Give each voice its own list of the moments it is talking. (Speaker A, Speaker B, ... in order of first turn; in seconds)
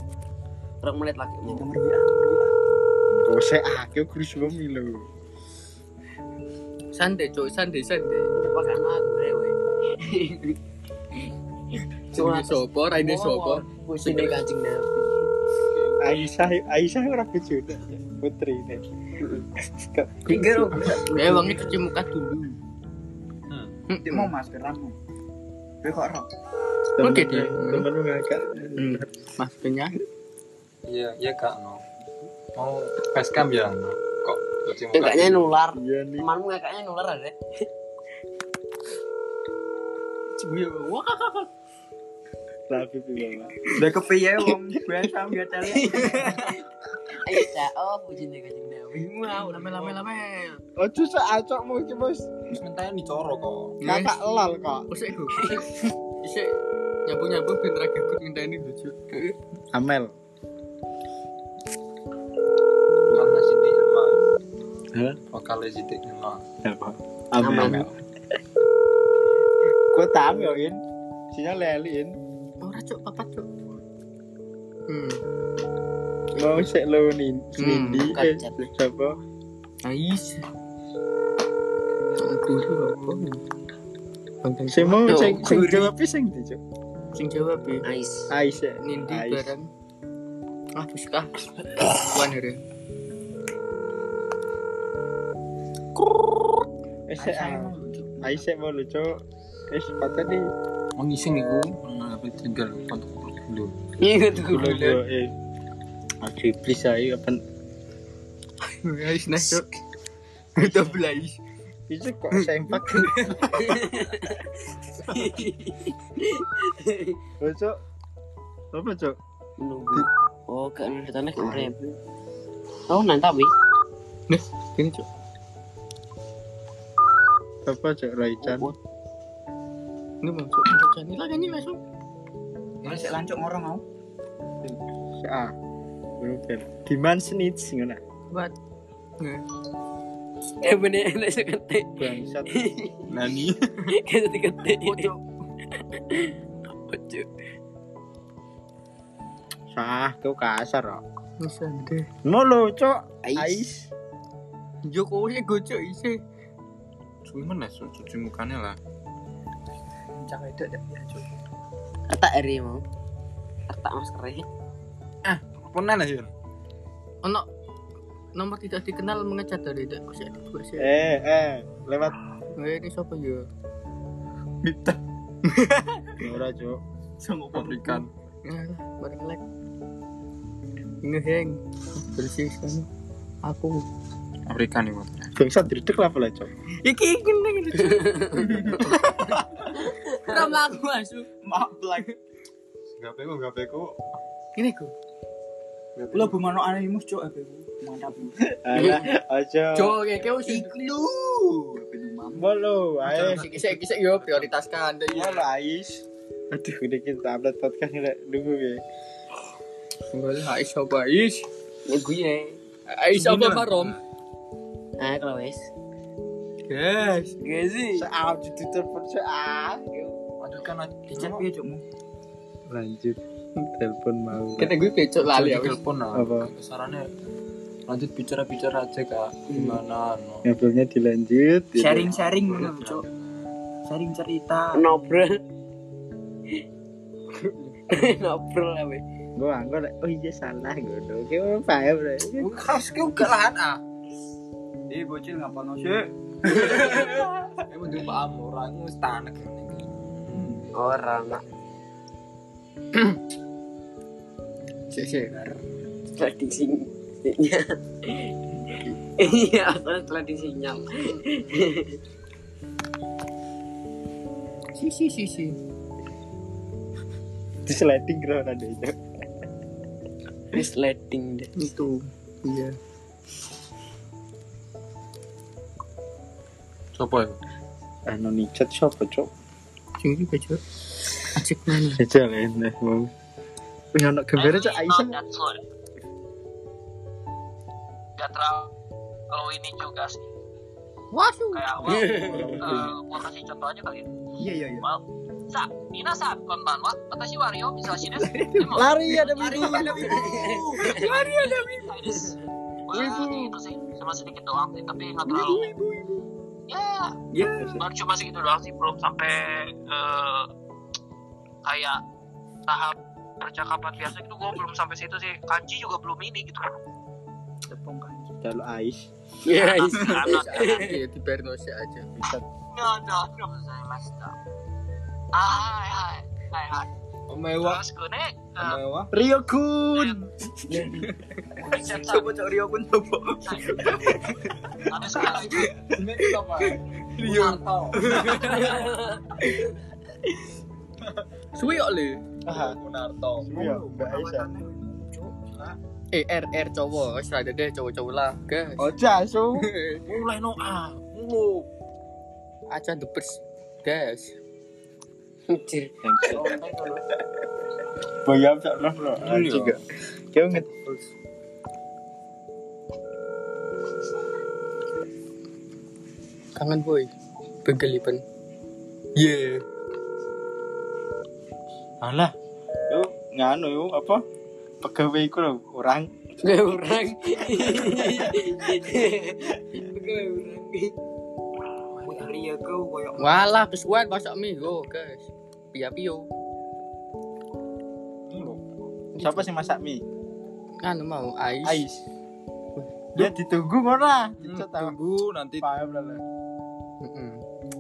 Speaker A: 0.8-1.7, 8.4-10.6, 12.1-15.2, 19.2-19.5, 20.2-21.8, 34.9-37.4, 45.6-46.6, 47.2-50.6, 55.4-55.9, 67.4-67.9, 78.0-78.7, 85.1-85.9, 87.8-88.3, 104.0-105.0, 113.5-117.2, 119.6-122.0, 122.9-123.5, 128.4-128.8, 140.6-143.0, 143.9-145.2, 145.7-147.3, 153.2-153.6, 162.1-162.8, 163.7-164.5, 188.1-188.5, 189.8-190.6, 211.9-212.6, 215.0-215.7, 217.4-218.1, 229.5-229.8, 234.7-235.4, 237.9-239.0, 250.7-251.4, 256.1-258.4, 259.2-262.0, 270.5-271.5, 291.9-292.8, 299.8-301.1, 319.4-320.9, 330.7-331.1, 338.3-339.2, 355.5-356.6, 376.4-380.9
Speaker B: 1.5-2.5, 24.0-25.0, 25.8-26.3, 43.8-46.3, 97.2-98.5, 132.9-133.8, 160.2-161.2, 177.2-178.0, 191.4-192.1, 196.1-198.4, 200.5-202.4, 221.2-221.8, 231.8-233.0, 233.9-234.7, 244.9-246.1, 246.7-247.1, 250.3-250.6, 294.4-294.9, 299.3-300.7, 305.3-306.2, 317.7-318.4, 331.6-334.1, 343.5-345.3, 356.8-357.0, 382.1-383.4
Speaker C: 3.2-5.1, 16.0-18.9, 19.8-20.9, 27.0-29.1, 35.7-36.3, 42.7-43.8, 50.8-52.3, 53.8-54.9, 59.7-60.1, 64.9-65.2, 66.6-67.9, 69.9-70.8, 71.3-72.2, 76.4-79.2, 84.7-86.6, 88.3-89.5, 97.1-100.4, 104.4-105.3, 106.2-107.4, 111.9-113.3, 117.4-117.8, 118.7-119.2, 121.4-121.7, 127.7-128.7, 135.2-135.5, 136.2-138.0, 142.0-142.6, 149.7-151.0, 152.2-153.9, 170.8-172.2, 176.2-176.8, 185.4-186.5, 198.6-200.0, 202.4-203.5, 205.1-208.8, 218.0-219.8, 222.7-224.7, 226.1-226.5, 230.4-232.2, 239.4-242.5, 267.6-269.0, 278.1-279.3, 281.9-283.1, 283.9-285.2, 292.2-293.0, 298.4-300.0, 307.4-307.8, 318.4-319.1, 322.2-322.4, 329.1-330.3, 342.5-342.8, 343.4-344.5, 348.8-349.7, 356.0-356.6, 358.2-359.8, 360.3-360.7, 372.0-372.3, 372.9-374.2, 374.8-376.1, 389.2-390.0, 391.6-392.0, 393.1-395.0, 395.6-396.2
Speaker D: 6.9-8.4, 12.1-14.4, 21.1-22.6, 23.9-24.3, 27.0-27.9, 29.4-30.0, 40.4-41.5, 49.4-50.6, 53.8-55.7, 56.2-58.9, 72.6-73.5, 74.9-75.2, 77.6-78.1, 79.8-80.4, 82.2-83.4, 84.4-85.7, 87.1-87.8, 88.8-89.7, 90.8-92.6, 108.8-109.7, 110.6-111.4, 112.9-113.5, 124.3-125.1, 130.2-131.8, 151.4-152.1, 154.8-156.2, 168.3-171.0, 172.6-173.5, 175.5-176.0, 178.4-179.4, 181.0-182.9, 183.4-183.8, 186.8-189.2, 190.2-191.3, 194.6-194.9, 198.7-199.1, 199.7-200.7, 203.2-205.4, 210.1-211.5, 212.9-214.0, 216.7-217.3, 224.7-225.8, 254.9-255.6, 264.8-265.6, 271.6-272.8, 280.0-280.6, 281.2-282.0, 291.1-291.8, 302.9-303.6, 320.2-322.1, 337.2-338.8, 341.5-342.2, 346.1-348.9, 349.6-350.0, 352.7-354.4, 366.5-367.1, 367.6-368.2, 369.1-369.6, 383.2-386.2, 389.1-389.5, 390.8-391.8, 397.0-397.4
Speaker E: 23.5-23.7, 30.9-31.8, 32.5-35.6, 52.5-53.8, 63.1-64.2, 65.3-66.4, 96.0-96.6, 101.0-103.7, 132.8-133.2, 143.1-143.6, 157.2-158.8, 165.2-166.3, 177.5-178.1, 184.5-185.3, 193.0-193.9, 196.0-196.6, 203.0-204.6, 213.1-214.0, 220.4-221.5, 224.6-227.0, 227.9-230.4, 232.2-233.3, 242.3-243.8, 246.6-247.0, 247.7-250.5, 276.9-277.4, 301.1-301.7, 327.3-327.9, 328.6-329.1, 335.1-339.0, 342.5-343.6, 350.1-351.7, 359.2-359.8, 360.5-361.0, 381.9-382.4, 388.3-388.6, 394.4-395.6
Speaker F: 284.4-285.6, 288.2-288.7, 289.3-290.2, 291.5-294.1, 294.8-299.8, 300.8-302.3, 302.9-305.7, 306.7-310.5, 311.6-312.0, 312.7-316.6, 319.5-320.8, 322.7-324.3, 325.3-326.9, 327.6-328.8, 329.9-330.2, 331.6-332.3, 333.4-334.0, 334.9-335.6